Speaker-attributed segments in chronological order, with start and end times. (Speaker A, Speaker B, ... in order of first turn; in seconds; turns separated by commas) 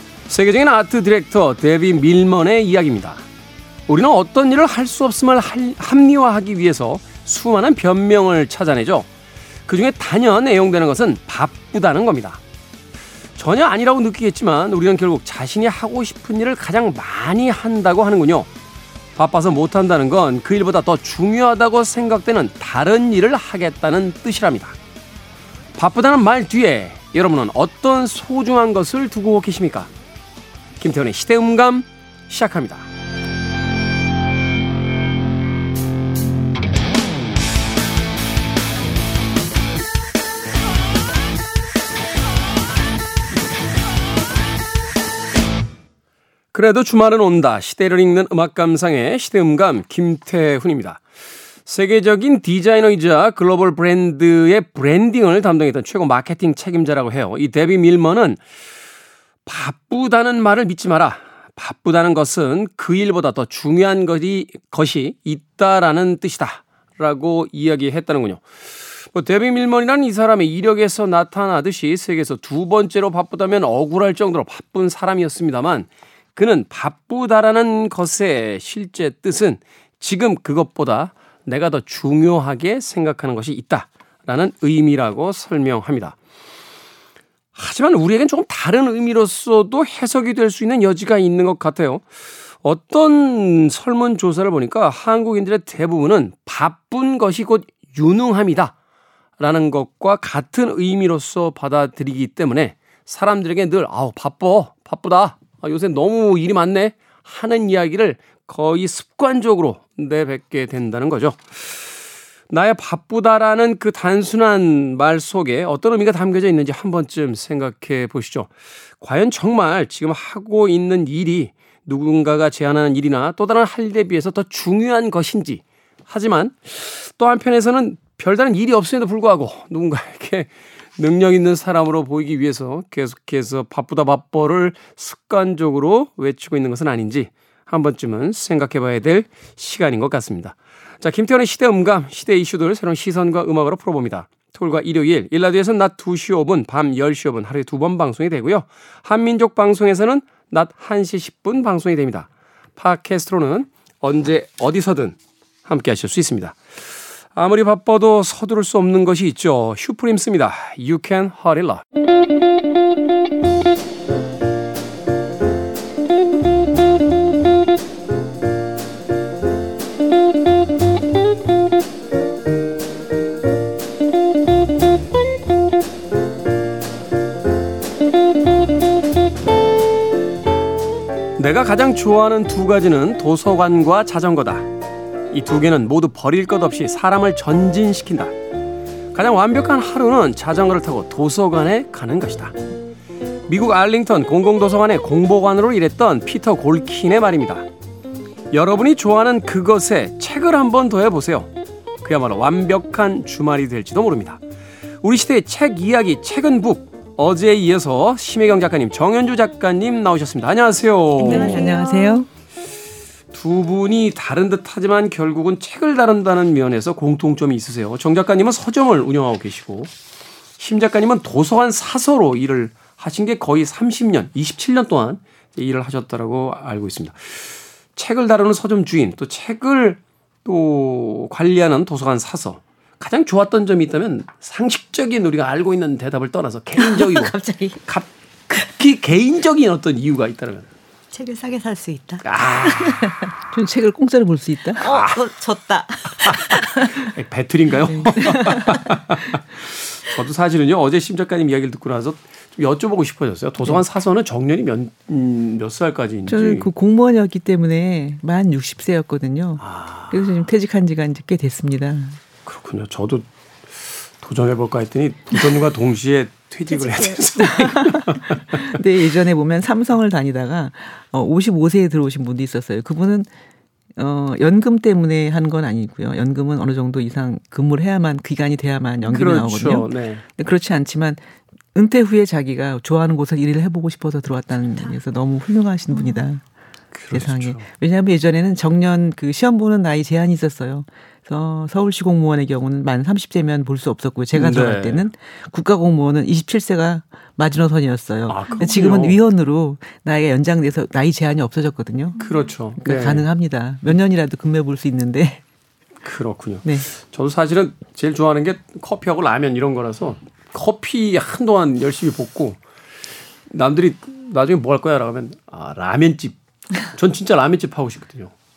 Speaker A: 0.3-3.2, Speaker A: 3.9-9.1, Speaker A: 9.7-12.4, Speaker A: 13.4-18.5, Speaker A: 19.1-24.7, Speaker A: 25.8-29.9, Speaker A: 30.8-32.9, Speaker A: 46.5-51.0, Speaker A: 51.7-58.4, Speaker A: 59.5-68.4, Speaker A: 69.0-86.1, Speaker A: 87.5-92.0, Speaker A: 92.6-98.7, Speaker A: 99.4-111.9, Speaker A: 112.5-118.5, Speaker A: 119.0-156.6, Speaker A: 157.3-161.8, Speaker A: 181.4-184.7, Speaker A: 185.3-188.3, Speaker A: 189.1-192.5, Speaker A: 193.5-197.6, Speaker A: 198.5-201.5, Speaker A: 202.0-204.4, Speaker A: 205.0-211.7, Speaker B: 211.2-212.3, Speaker C: 211.2-212.2, Speaker A: 213.3-219.9, Speaker A: 220.6-237.3, Speaker C: 236.8-237.8, Speaker A: 237.8-240.7, Speaker C: 241.1-243.3, Speaker A: 242.2-243.1, Speaker B: 243.5-244.8, Speaker C: 244.8-247.1, Speaker A: 244.8-245.2, Speaker A: 246.2-256.7, Speaker B: 247.9-248.8, Speaker C: 248.4-248.8, Speaker B: 256.3-262.2, Speaker A: 259.6-260.2, Speaker A: 262.4-263.2, Speaker A: 263.8-268.8, Speaker C: 266.7-267.4, Speaker B: 267.4-273.3, Speaker B: 273.9-281.2, Speaker A: 279.0-280.2, Speaker B: 281.7-286.4, Speaker C: 285.9-286.2, Speaker A: 286.9-287.6, Speaker B: 287.1-302.2, Speaker A: 294.3-295.1, Speaker A: 298.3-299.2, Speaker A: 302.2-303.3, Speaker B: 302.8-305.4, Speaker A: 306.0-312.6, Speaker A: 313.5-318.3